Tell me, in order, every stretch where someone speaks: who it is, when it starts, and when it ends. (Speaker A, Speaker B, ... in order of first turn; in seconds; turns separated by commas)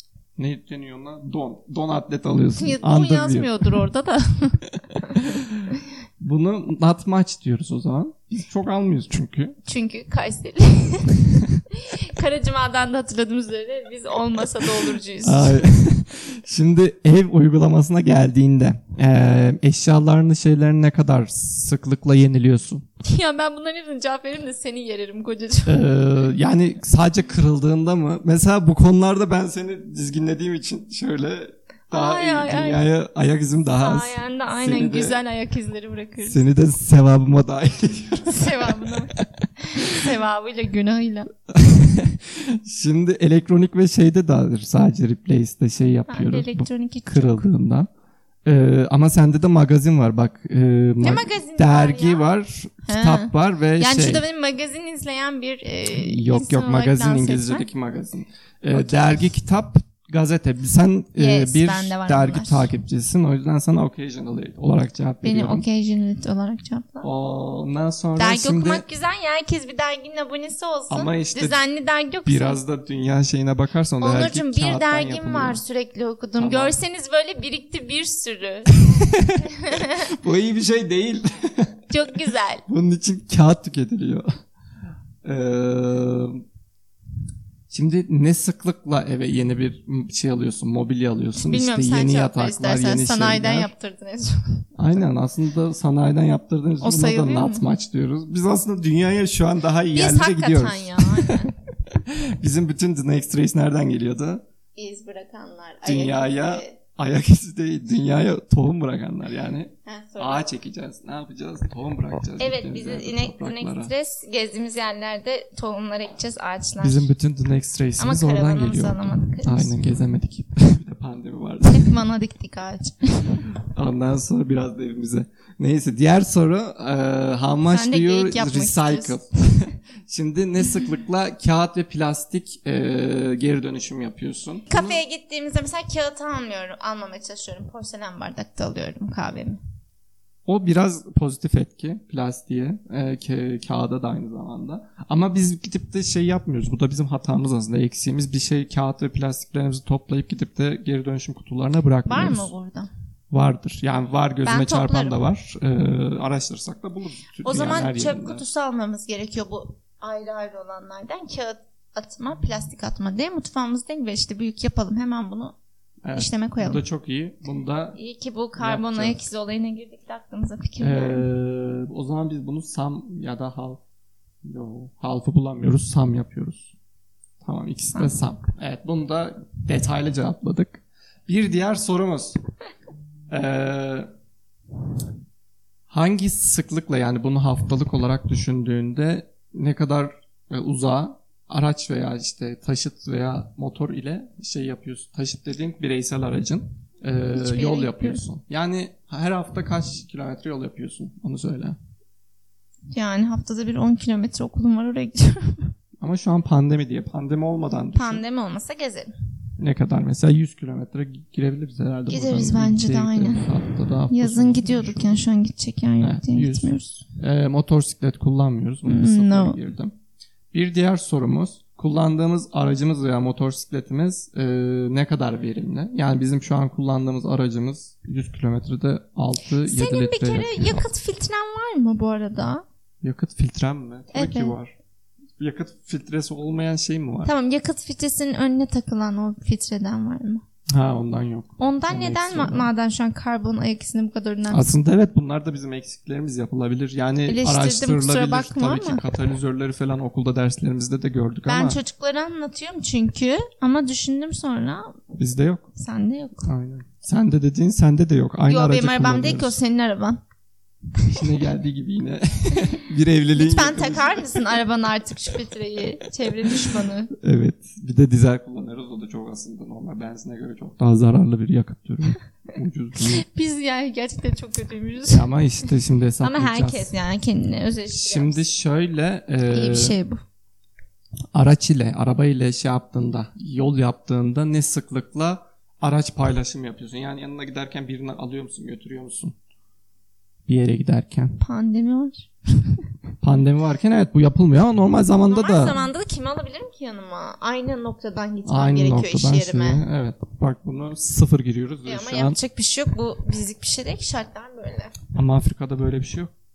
Speaker A: 0.4-3.7, Speaker B: 2.6-5.3, Speaker A: 5.1-9.6, Speaker B: 9.7-15.6, Speaker A: 15.2-22.9, Speaker B: 23.0-25.8, Speaker A: 25.7-35.2, Speaker B: 31.9-32.8, Speaker B: 33.8-36.4, Speaker A: 36.3-39.2, Speaker B: 38.3-41.3, Speaker A: 41.5-47.9, Speaker B: 46.1-47.5, Speaker A: 48.5-54.2, Speaker B: 51.0-52.2, Speaker B: 52.9-57.7, Speaker A: 55.9-65.6, Speaker B: 58.7-59.1, Speaker B: 61.2-62.7, Speaker B: 65.2-67.1, Speaker A: 67.0-68.8, Speaker B: 68.2-72.6, Speaker A: 70.9-71.6, Speaker A: 72.2-75.6, Speaker B: 74.0-80.1, Speaker A: 76.4-76.8, Speaker A: 78.8-81.8, Speaker B: 81.9-82.6, Speaker A: 82.7-84.2, Speaker A: 85.2-86.4, Speaker A: 87.7-93.7, Speaker B: 91.3-94.6, Speaker A: 94.8-104.4, Speaker B: 96.8-97.7, Speaker B: 99.9-101.5, Speaker B: 104.8-106.8, Speaker A: 105.8-113.9, Speaker B: 109.9-110.4, Speaker B: 112.4-117.1, Speaker A: 116.8-122.0, Speaker B: 118.0-119.8, Speaker B: 121.7-123.5, Speaker A: 123.7-135.0, Speaker B: 127.7-129.2, Speaker B: 134.7-139.6, Speaker A: 140.5-152.5, Speaker B: 152.1-152.9, Speaker A: 153.3-158.4, Speaker B: 154.4-155.2, Speaker B: 157.4-165.6, Speaker A: 166.0-168.0, Speaker B: 166.1-166.8, Speaker B: 167.9-171.2, Speaker A: 168.6-169.3, Speaker A: 170.8-173.8, Speaker A: 174.4-176.7, Speaker A: 177.4-182.4, Speaker A: 183.3-184.1, Speaker A: 185.9-201.8, Speaker B: 197.3-198.2, Speaker B: 202.9-205.7, Speaker A: 206.0-208.2, Speaker B: 207.9-209.1, Speaker A: 209.6-215.2, Speaker B: 212.1-217.1, Speaker A: 216.0-219.9, Speaker B: 218.9-219.6, Speaker A: 220.5-230.9, Speaker B: 229.6-232.6, Speaker A: 233.0-234.7, Speaker B: 234.1-234.6, Speaker A: 235.4-237.3, Speaker B: 237.2-240.4, Speaker A: 240.7-242.7, Speaker B: 241.6-244.7, Speaker A: 244.5-251.8, Speaker B: 247.3-249.0, Speaker B: 251.5-255.0, Speaker A: 255.1-255.7, Speaker B: 255.8-256.5, Speaker A: 256.4-259.6, Speaker B: 258.5-260.2, Speaker A: 261.1-264.6, Speaker B: 263.4-267.1, Speaker A: 267.1-273.2, Speaker B: 273.2-275.3, Speaker A: 275.1-276.9, Speaker B: 276.2-278.4, Speaker A: 277.9-280.0, Speaker B: 279.5-280.2, Speaker A: 281.3-289.4, Speaker A: 290.5-291.4, Speaker B: 291.4-292.8, Speaker A: 293.2-295.9, Speaker B: 295.2-299.8, Speaker A: 298.5-302.4, Speaker B: 301.9-304.9, Speaker A: 305.1-306.3